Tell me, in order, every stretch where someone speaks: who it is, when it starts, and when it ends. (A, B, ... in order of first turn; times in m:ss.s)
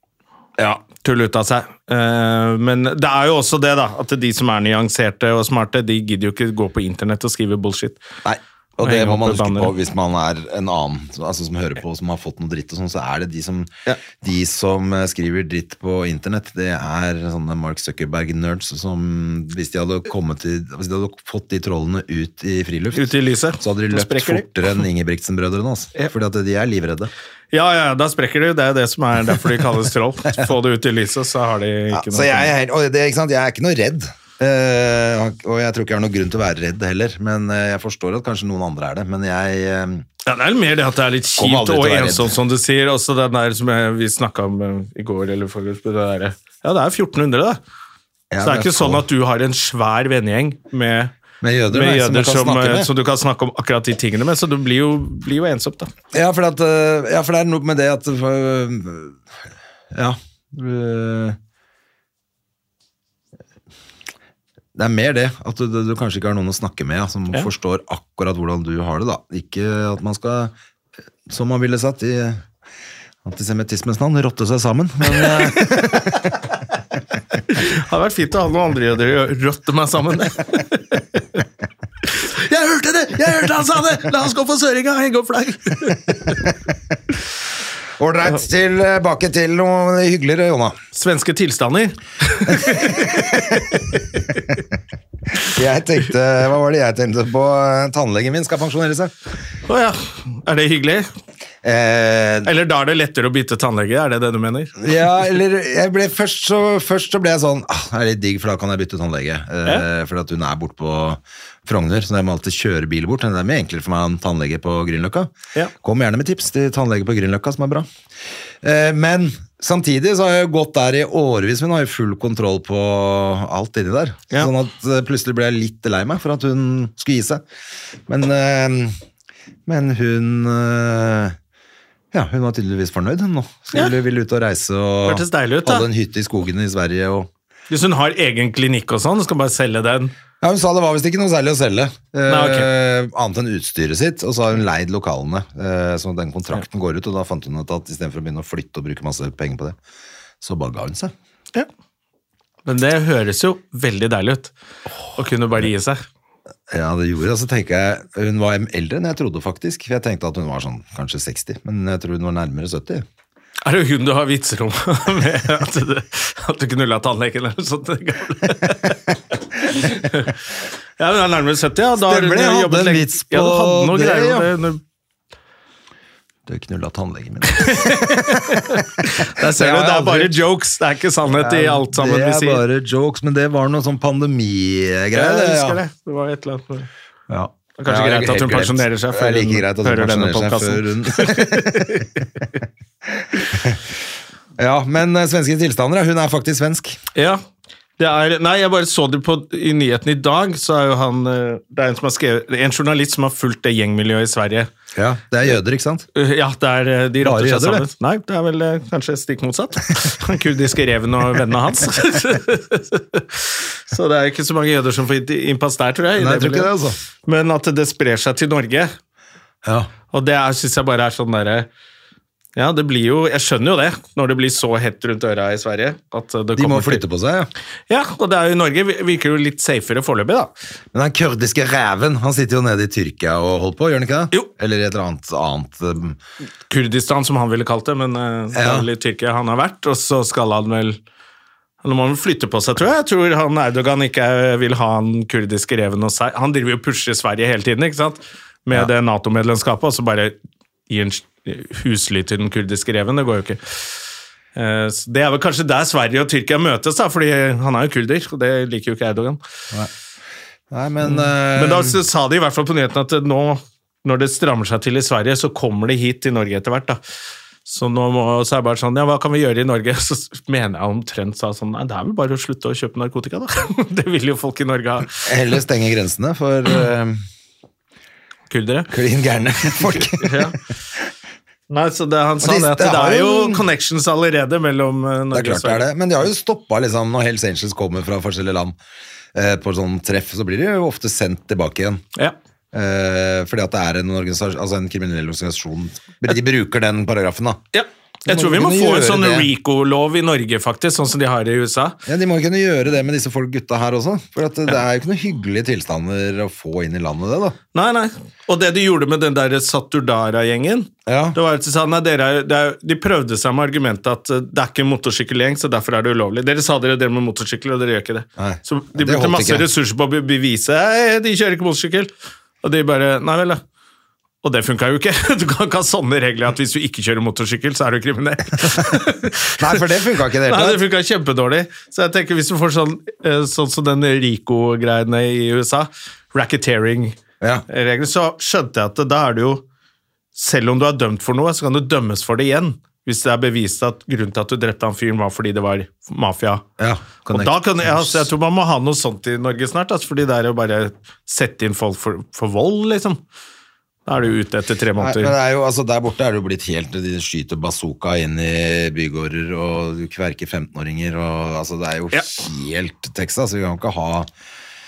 0:00.6-0:00.8 A
0:00.8-0:08.0 B
0:08.2-0:27.1 A
0:08.8-0:09.7 B
0:22.9-0:24.8 B
0:27.5-0:32.5 B
0:31.9-0:40.1 A
0:40.3-0:47.6 B
0:41.4-0:42.3 A
0:48.3-0:49.0 A
0:48.4-0:51.1 B
0:51.4-0:52.9 A
0:51.7-0:55.9 B
0:56.1-0:59.2 A
0:59.9-1:01.4 A
1:04.8-1:10.5 A
1:11.3-1:12.4 A
1:13.2-1:16.3 A
1:15.1-1:16.4 B
1:17.5-1:21.4 B
1:22.0-1:26.4 B
1:28.0-1:30.8 A
1:30.9-1:33.8 B
1:32.5-1:34.6 A
1:35.4-1:39.1 A
1:39.7-1:41.1 B
1:41.6-1:42.5 A
1:42.4-1:44.9 B
1:44.8-1:57.9 A
1:58.6-2:07.4 A
2:08.1-2:09.0 A
2:09.7-2:11.4 A
2:12.1-2:17.3 A
2:15.0-2:15.9 B
2:17.7-2:20.1 B
2:20.4-2:29.8 A
2:22.3-2:22.7 B
2:30.4-2:31.1 A
2:32.7-2:34.5 B
2:35.1-2:36.0 B
2:36.7-2:43.1 A
2:43.6-2:49.0 B
2:49.6-2:50.4 B
2:51.0-2:54.8 B
2:52.0-2:54.5 A
2:56.5-3:00.4 A
2:57.5-3:02.6 B
3:01.3-3:05.8 A
3:05.1-3:06.9 B
3:07.3-3:12.4 A
3:07.8-3:12.2 B
3:13.1-3:13.9 A
3:14.6-3:17.0 A
3:17.2-3:17.4 B
3:18.0-3:24.7 B
3:25.0-3:26.1 A
3:26.2-3:36.7 B
3:27.2-3:27.9 A
3:36.2-3:37.0 A
3:37.3-3:38.9 B
3:39.6-3:39.9 A
3:40.1-3:41.7 B
3:42.6-3:47.0 B
3:46.6-3:47.5 A
3:47.9-3:50.5 B
3:50.9-3:56.2 A
3:56.7-4:01.0 B
3:58.5-3:58.9 A
4:01.8-4:10.4 B
4:10.9-4:13.6 B
4:14.6-4:19.4 B
4:20.7-4:22.0 A
4:21.0-4:27.0 B
4:27.6-4:35.3 B
4:35.2-4:37.2 A
4:38.5-4:38.9 B
4:38.9-4:40.6 A
4:39.8-4:40.6 B
4:41.7-4:45.8 B
4:42.4-4:43.6 A
4:45.3-4:48.8 A
4:49.3-4:52.0 A
4:52.7-4:57.6 A
4:57.7-5:02.0 B
4:58.3-4:59.5 A
5:02.1-5:07.6 A
5:07.7-5:22.1 B
5:11.1-5:11.4 A
5:18.4-5:19.7 A
5:22.6-5:23.6 B
5:24.4-5:29.8 B
5:29.6-5:30.8 A
5:30.5-5:37.2 B
5:37.7-5:39.6 B
5:40.4-5:46.6 B
5:46.8-5:48.3 A
5:47.3-5:53.2 B
5:54.1-5:55.4 B
5:55.0-6:04.3 A